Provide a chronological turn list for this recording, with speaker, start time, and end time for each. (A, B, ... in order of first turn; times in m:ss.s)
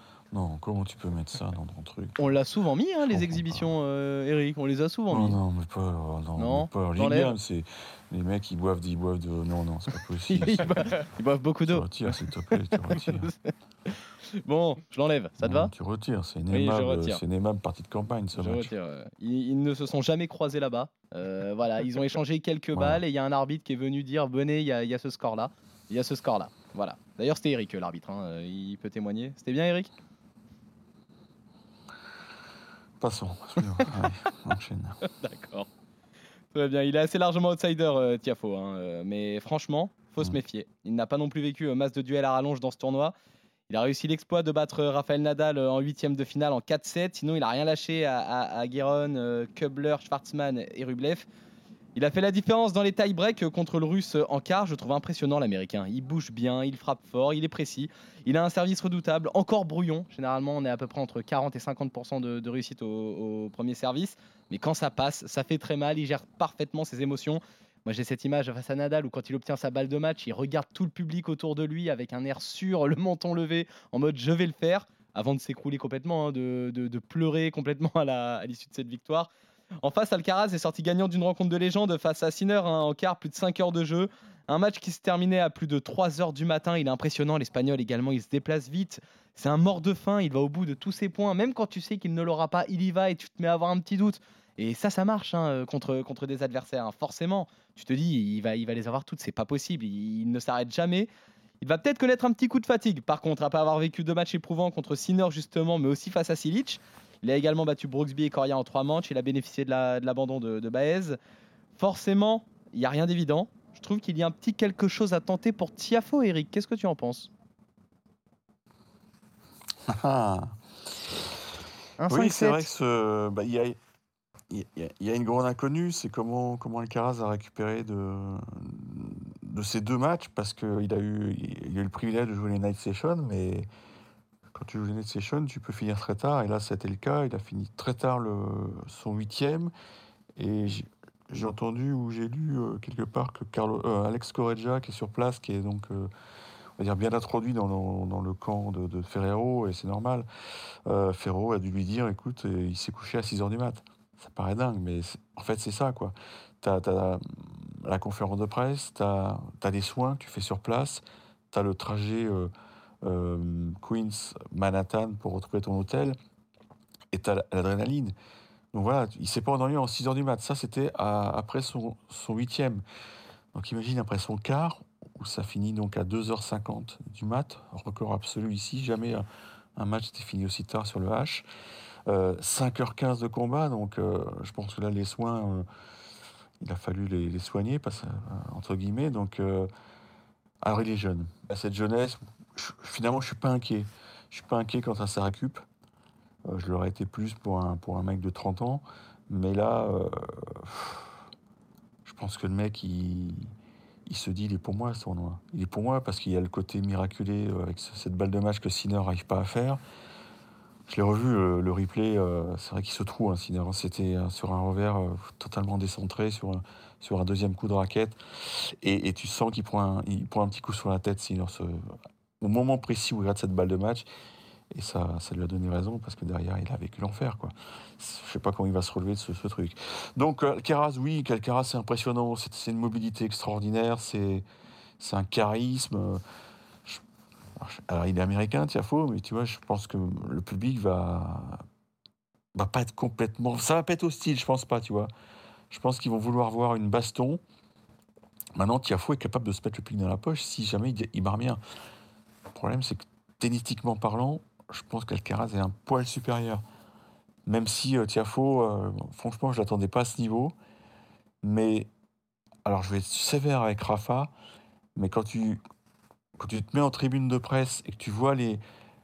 0:00.3-0:02.3 A
0:02.2-0:05.4 B
0:03.1-0:03.7 A
0:05.1-0:10.9 A
0:06.4-0:07.3 B
0:10.3-0:15.7 B
0:11.7-0:13.3 A
0:15.4-0:18.7 A
0:16.5-0:17.2 B
0:18.3-0:29.9 B
0:22.8-0:23.0 A
0:33.0-0:35.0 A
0:35.0-0:35.7 B
0:36.5-0:43.2 B
0:43.7-0:51.3 B
0:52.0-1:19.3 B
1:19.8-1:41.1 B
1:41.6-1:51.2 B
1:51.8-1:57.3 B
1:59.9-2:00.6 A
2:02.0-2:02.7 B
2:02.1-2:03.8 A
2:04.5-2:13.7 A
2:14.5-2:19.7 A
2:20.4-2:26.1 A
2:26.8-2:30.3 A
2:30.9-2:42.5 A
2:43.0-2:46.2 A
2:47.1-2:48.1 A
2:48.7-2:52.8 A
2:53.5-3:01.5 A
3:02.1-3:05.7 A
3:06.6-3:09.7 A
3:10.6-3:15.6 A
3:16.5-3:21.2 A
3:22.0-3:23.5 A
3:24.1-3:29.8 A
3:30.9-3:44.1 A
3:44.7-3:54.4 A
3:55.0-3:56.2 A
3:57.6-4:01.6 A
4:02.6-4:05.1 A
4:05.7-4:07.4 A
4:08.6-4:11.6 A
4:12.5-4:16.6 A
4:17.5-4:20.5 A
4:21.4-4:21.9 A
4:22.6-4:24.3 A
4:25.0-4:25.6 A
4:26.4-4:28.6 A